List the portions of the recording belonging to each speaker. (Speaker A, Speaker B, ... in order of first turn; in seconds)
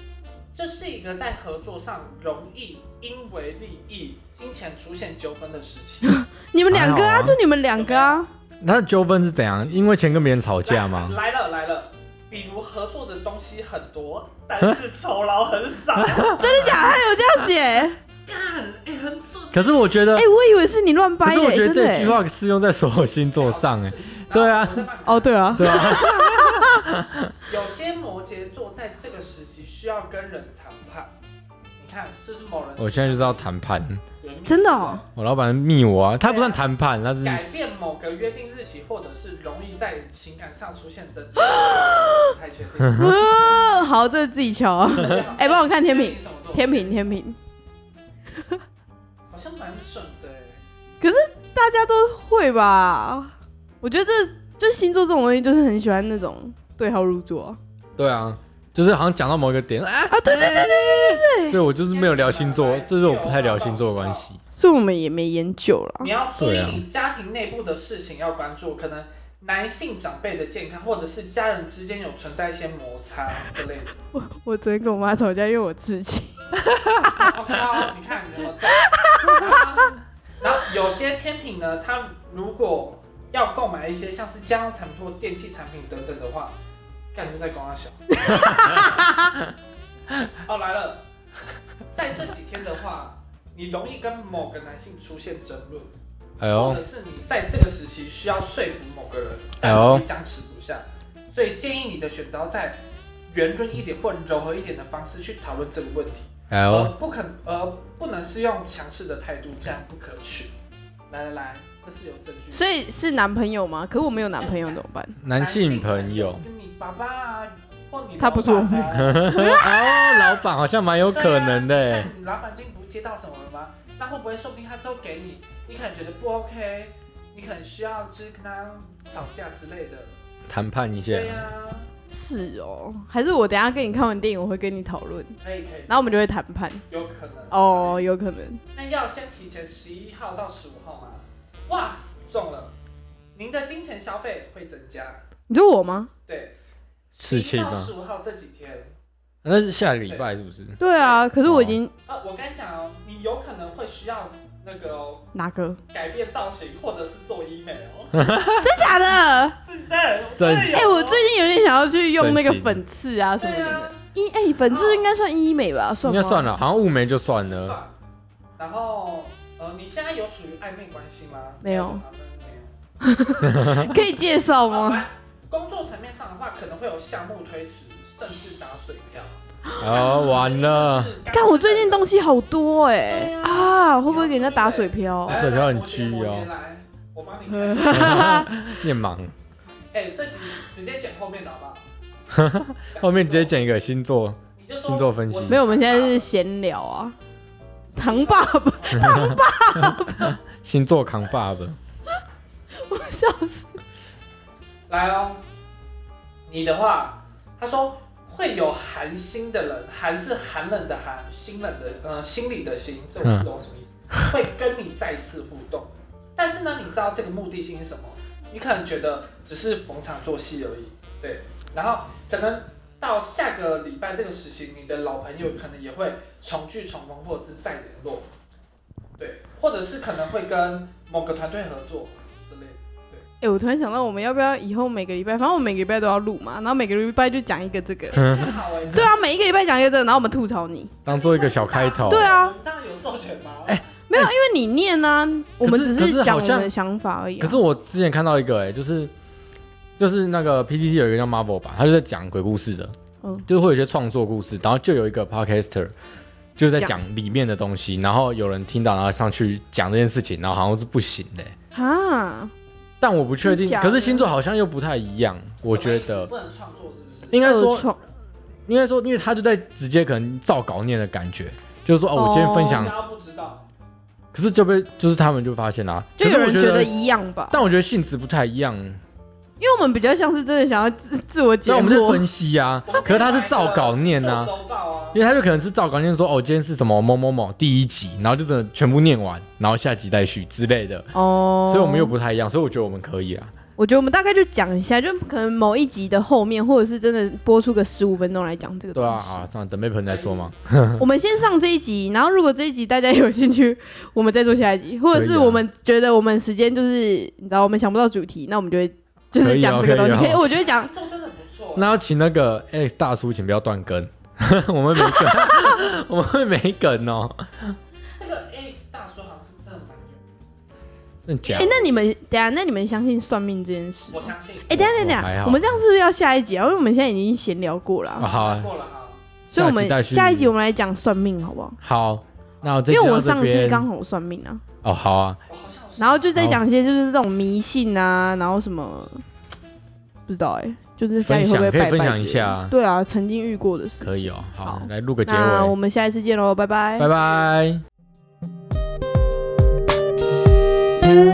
Speaker A: 0.5-6.2, 7.7-8.2, 10.6-16.6, 18.2-19.8, 23.3-26.0, 27.5-31.1, 31.8-33.4, 34.2-35.1, 36.2-36.6, 37.2-43.8, 44.9-47.2, 49.3-50.6, 61.8-64.3, 66.0-74.0, 77.0-86.5, 87.1-89.0, 90.3-91.0, 91.9-95.9, 96.5-110.5, 111.1-112.6, 114.4-114.8, 115.3-119.2, 121.0-130.2, 131.1-131.9, 135.4-136.1, 136.9-138.0, 138.7-142.7, 143.3-145.2, 146.3-146.5, 147.1-148.9, 150.8-151.2, 152.1-155.2, 155.9-158.2, 159.6-161.3, 163.4-164.1, 164.6-165.1, 167.3-167.9, 168.6-172.7, 174.7-182.1, 183.0-188.3, 189.9-191.8, 192.9-193.5, 194.6-196.3, 197.9-199.3, 204.9-205.4, 206.5-228.2, 229.2-233.2, 238.1-239.2, 241.0-243.8, 265.7-267.4, 272.5-273.7, 276.7-277.2, 282.9-285.2, 300.1-300.5, 310.1-311.9, 318.2-320.2, 321.4-321.9, 324.1-324.9, 328.2-329.2, 335.5-336.3
Speaker B: 6.0-8.3, 16.3-18.0, 20.1-22.2, 25.1-26.8, 34.4-35.0, 41.5-42.3, 42.9-47.4, 51.0-57.6, 60.1-61.6, 64.5-66.1, 74.1-76.4, 77.0-77.3, 78.8-79.5, 88.2-89.1, 112.5-115.2, 118.2-120.4, 132.1-136.8, 137.5-138.6, 145.5-146.1, 150.8-151.9, 155.3-155.8, 158.6-159.6, 160.7-166.5, 171.6-172.0, 173.0-175.0, 179.7-180.1, 181.3-185.4, 187.5-188.7, 195.5-197.1, 197.9-200.3, 202.8-203.7, 233.4-241.0, 242.0-242.6, 244.1-247.6, 261.7-262.5, 263.4-264.3, 267.4-268.0, 272.1-272.9, 276.2-277.6, 279.6-282.2, 291.1-292.1, 293.8-299.4, 301.0-310.9, 315.0-315.6, 321.6-328.2, 329.5-331.8, 332.9-334.6, 336.0-339.2, 340.3-347.1
Speaker C: 6.7-7.4, 8.6-11.2, 16.0-16.7, 19.5-20.3, 21.2-24.9, 25.6-27.4, 32.8-34.0, 35.1-37.4, 58.0-64.4, 66.4-66.8, 96.4-96.8, 99.6-100.0, 106.5-106.9, 115.2-116.4, 118.9-122.1, 130.5-131.5, 147.2-147.9, 149.4-150.8, 151.4-151.8, 158.1-158.8, 160.3-160.9, 162.2-162.8, 166.0-167.8, 173.4-173.9, 179.8-181.1, 185.3-186.5, 187.9-189.3, 192.3-195.6, 199.0-201.8, 213.2-213.5, 238.2-238.5, 241.1-242.3, 243.7-244.3, 245.6-246.7, 247.4-249.1, 250.0-252.9, 253.5-255.9, 256.6-261.5, 263.0-266.3, 267.3-267.9, 268.7-273.0, 274.3-276.9, 277.5-279.0, 281.6-284.5, 285.1-291.1, 291.6-293.5, 298.9-301.1, 305.1-305.6, 309.4-310.4, 311.8-317.8, 321.3-321.7, 324.7-325.8, 328.2-328.7, 329.5-330.5, 331.8-333.9, 334.8-335.4, 341.2-342.7, 344.0-345.7, 347.0-347.8